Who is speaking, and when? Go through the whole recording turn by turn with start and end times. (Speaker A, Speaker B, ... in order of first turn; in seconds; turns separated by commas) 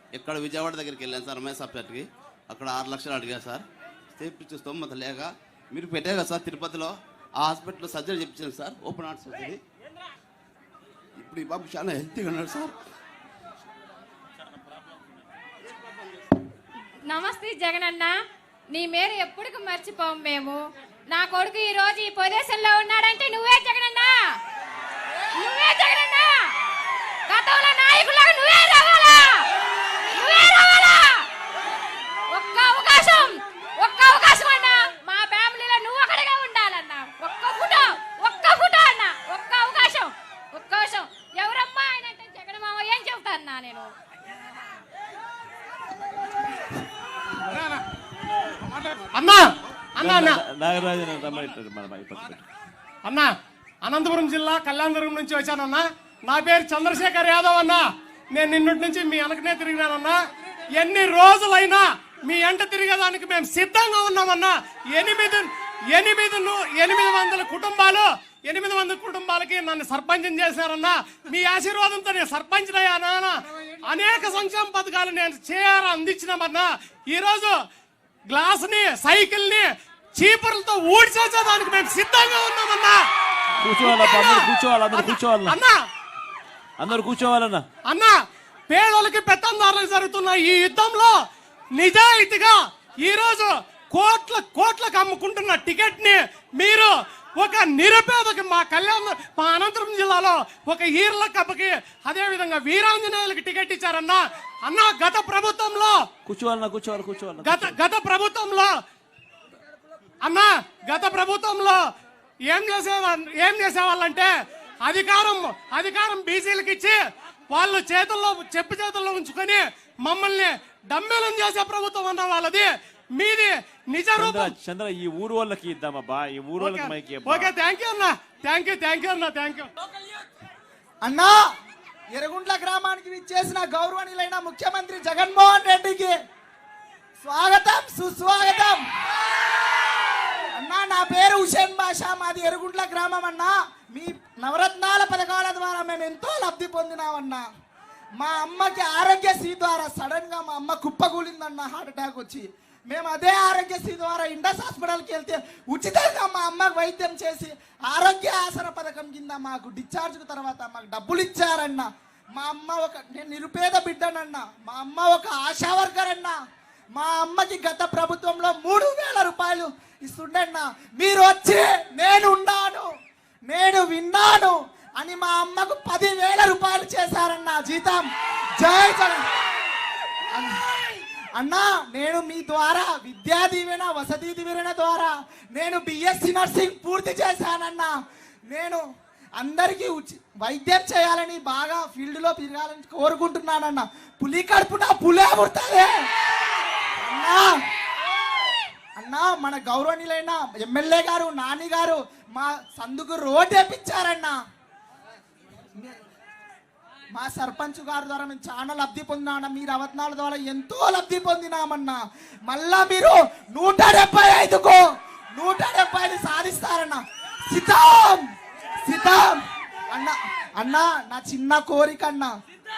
Speaker A: 0.1-9.6, Speaker A: 11.2-12.7, Speaker B: 17.1-18.2, Speaker B: 18.7-24.2, Speaker B: 25.4-26.4, Speaker B: 27.3-29.4, Speaker B: 30.1-31.2, Speaker B: 32.3-43.9, Speaker C: 47.5-47.8, Speaker C: 49.1-50.4, Speaker D: 50.0-52.4, Speaker C: 53.0-53.3, Speaker C: 53.8-60.2, Speaker C: 60.8-77.6, Speaker C: 78.3-83.1, Speaker D: 83.6-85.6, Speaker C: 83.8-85.8, Speaker D: 86.8-87.7, Speaker C: 87.9-88.2, Speaker C: 88.7-91.2, Speaker C: 91.8-106.0, Speaker D: 106.2-107.7, Speaker C: 107.4-108.7, Speaker C: 110.2-111.8, Speaker C: 112.5-114.3, Speaker C: 114.8-117.0, Speaker C: 117.5-124.5, Speaker D: 124.2-127.5, Speaker C: 126.6-129.7, Speaker E: 131.0-131.4, Speaker E: 132.1-136.2, Speaker E: 137.2-138.8, Speaker E: 140.5-147.4, Speaker E: 148.2-166.3, Speaker E: 166.9-172.9, Speaker E: 173.5-178.1, Speaker E: 178.6-179.3, Speaker E: 180.3-187.9, Speaker E: 188.5-188.8, Speaker E: 189.4-196.1, Speaker E: 197.0-197.5, Speaker E: 199.0-204.4, Speaker E: 207.2-214.8, Speaker E: 215.3-218.3, Speaker E: 218.8-219.4, Speaker E: 219.9-222.3